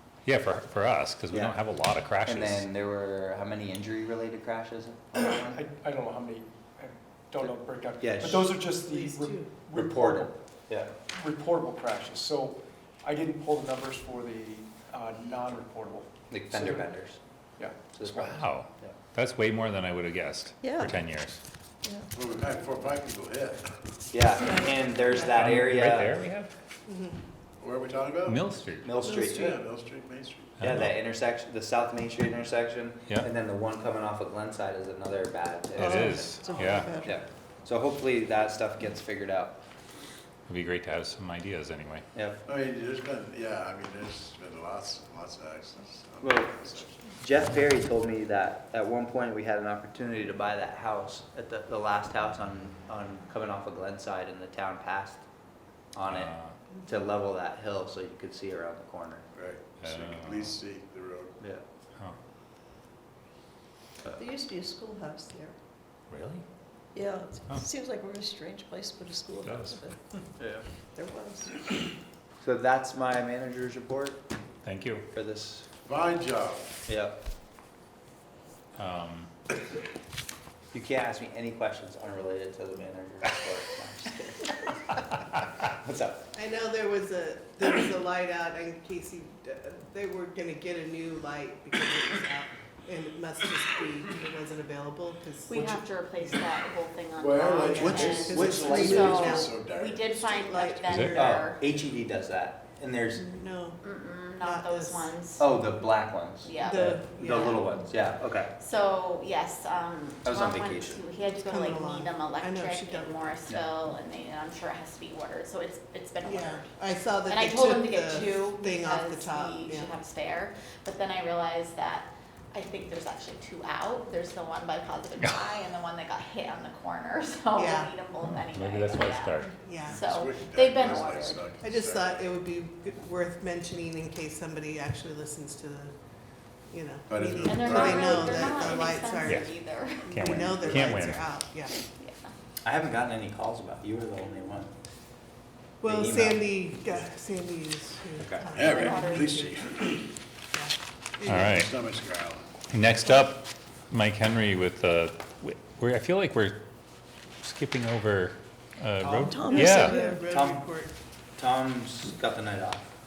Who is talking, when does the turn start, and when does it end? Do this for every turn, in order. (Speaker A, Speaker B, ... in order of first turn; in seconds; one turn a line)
Speaker A: 0.3-2.7
Speaker B: 1.3-1.6
Speaker B: 2.2-5.6
Speaker C: 5.2-10.3
Speaker B: 7.4-8.5
Speaker D: 8.9-9.5
Speaker B: 9.7-10.9
Speaker C: 11.1-16.9
Speaker B: 16.3-17.2
Speaker C: 17.6-18.4
Speaker B: 17.9-18.9
Speaker A: 18.1-21.4
Speaker E: 22.1-23.8
Speaker B: 24.1-26.2
Speaker A: 25.2-26.5
Speaker D: 26.9-27.1
Speaker E: 27.6-28.5
Speaker A: 28.3-29.0
Speaker B: 28.8-29.6
Speaker E: 29.2-30.6
Speaker A: 30.6-30.9
Speaker B: 30.6-36.3
Speaker F: 35.8-37.1
Speaker A: 35.9-36.9
Speaker B: 36.9-39.6
Speaker A: 40.5-42.1
Speaker B: 42.1-42.4
Speaker E: 42.5-47.1
Speaker B: 46.2-55.2
Speaker B: 55.9-59.3
Speaker A: 56.1-56.5
Speaker E: 59.3-61.4
Speaker A: 59.8-60.5
Speaker F: 64.2-65.5
Speaker A: 66.1-66.4
Speaker F: 67.0-69.9
Speaker A: 69.4-69.8
Speaker B: 70.4-70.7
Speaker F: 71.0-71.5
Speaker B: 72.4-74.2
Speaker A: 74.6-75.0
Speaker B: 75.1-75.7
Speaker E: 75.8-76.7
Speaker B: 76.9-77.2
Speaker A: 78.8-79.3
Speaker B: 80.7-85.1
Speaker B: 85.6-86.3
Speaker D: 86.3-96.5
Speaker G: 95.5-101.6
Speaker E: 97.2-100.3
Speaker D: 97.5-99.6
Speaker B: 97.8-99.4
Speaker D: 100.1-101.5
Speaker A: 100.9-101.2
Speaker B: 101.1-103.2
Speaker D: 103.1-103.8
Speaker G: 103.8-105.5
Speaker D: 104.4-105.1
Speaker B: 105.4-108.5
Speaker G: 106.4-106.9
Speaker D: 106.6-107.8
Speaker G: 108.6-116.8
Speaker B: 110.2-111.0
Speaker D: 111.3-113.3
Speaker D: 116.2-119.9
Speaker G: 117.3-131.5
Speaker D: 127.6-127.9
Speaker A: 128.3-129.6
Speaker D: 129.6-130.0
Speaker E: 129.9-132.2
Speaker D: 131.6-135.9
Speaker D: 136.7-141.7
Speaker E: 137.1-138.8
Speaker G: 137.4-140.4
Speaker A: 139.2-139.5
Speaker A: 140.1-141.2
Speaker G: 141.8-142.3
Speaker B: 142.6-144.7
Speaker D: 145.8-149.8
Speaker B: 145.8-146.4
Speaker B: 148.2-148.5
Speaker G: 148.5-149.6
Speaker E: 148.6-150.0
Speaker D: 150.5-151.6
Speaker A: 151.3-151.7
Speaker E: 151.3-152.6
Speaker A: 152.7-156.6
Speaker A: 157.4-160.0
Speaker D: 159.0-160.9
Speaker F: 159.4-160.0
Speaker B: 160.2-160.7
Speaker B: 161.4-162.9